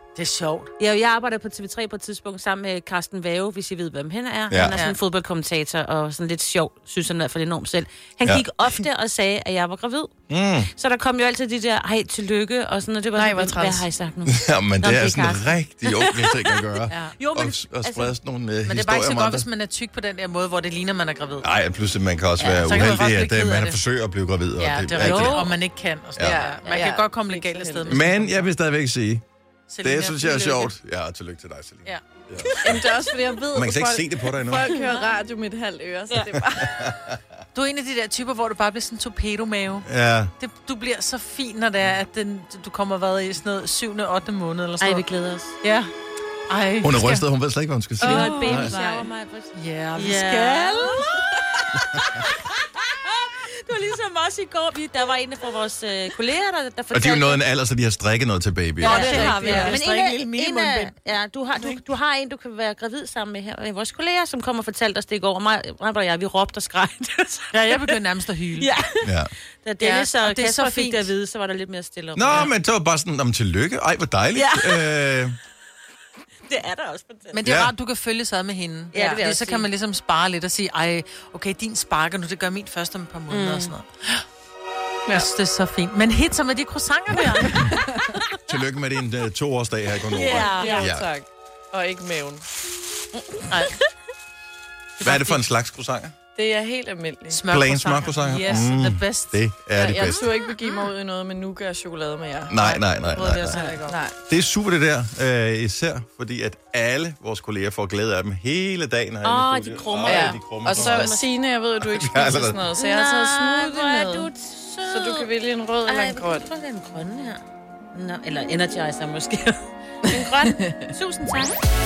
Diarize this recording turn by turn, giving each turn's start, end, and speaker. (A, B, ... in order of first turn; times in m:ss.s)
0:00.1-0:00.7 A
0:00.8-0:16.6 B
0:04.5-0:04.8 C
0:10.3-0:10.7 C
0:13.1-0:13.9 D
0:14.2-0:19.5 C
0:16.9-0:18.0 A
0:18.6-0:21.5 A
0:21.4-0:25.5 C
0:22.4-0:22.8 B
0:22.4-0:23.8 A
0:24.6-0:25.6 B
0:24.8-0:28.5 A
0:26.1-0:26.4 C
0:26.2-0:28.0 D
0:27.8-0:29.2 C
0:29.7-0:30.7 A
0:29.8-0:33.0 C
0:31.8-0:32.5 A
0:32.6-0:36.9 D
0:33.5-0:34.7 C
0:34.7-0:35.1 B
0:36.5-0:37.2 C
0:37.5-0:39.9 A
0:39.8-0:40.3 C
0:40.4-0:45.0 A
0:44.8-0:45.6 B
0:45.6-0:45.9 A
0:46.5-0:47.3 A
0:46.8-0:48.7 C
0:48.0-0:52.5 B
0:48.0-0:49.0 D
0:48.1-0:49.0 A
0:49.5-0:51.4 A
0:53.0-0:57.4 B
0:56.9-0:59.5 C
0:58.8-1:12.5 B
0:58.8-1:01.0 A
0:58.8-0:59.8 D
1:07.5-1:08.7 A
1:09.0-1:09.3 C
1:09.8-1:11.1 A
1:12.1-1:15.4 C
1:14.3-1:15.0 B
1:16.4-1:17.4 B
1:17.3-1:24.2 A
1:17.4-1:17.7 C
1:18.9-1:19.7 B
1:23.3-1:23.7 B
1:25.1-1:27.8 A
1:27.5-1:28.0 D
1:28.4-1:31.1 C
1:30.1-1:30.9 B
1:30.2-1:32.4 D
1:30.3-1:30.8 A
1:33.5-1:33.8 A
1:35.0-1:35.4 A
1:35.0-1:36.1 C
1:36.3-1:37.4 D
1:37.3-1:39.5 A
1:37.4-1:40.3 C
1:39.7-1:42.5 D
1:42.5-1:43.7 C
1:42.5-1:44.0 A
1:43.6-1:44.2 D
1:44.3-1:51.2 C
1:49.2-1:51.3 B
1:50.0-1:54.3 D
1:51.8-1:52.6 C
1:52.7-1:55.3 B
1:54.8-1:56.5 D
1:55.8-1:57.4 B
1:57.9-2:01.6 B
2:00.1-2:00.9 D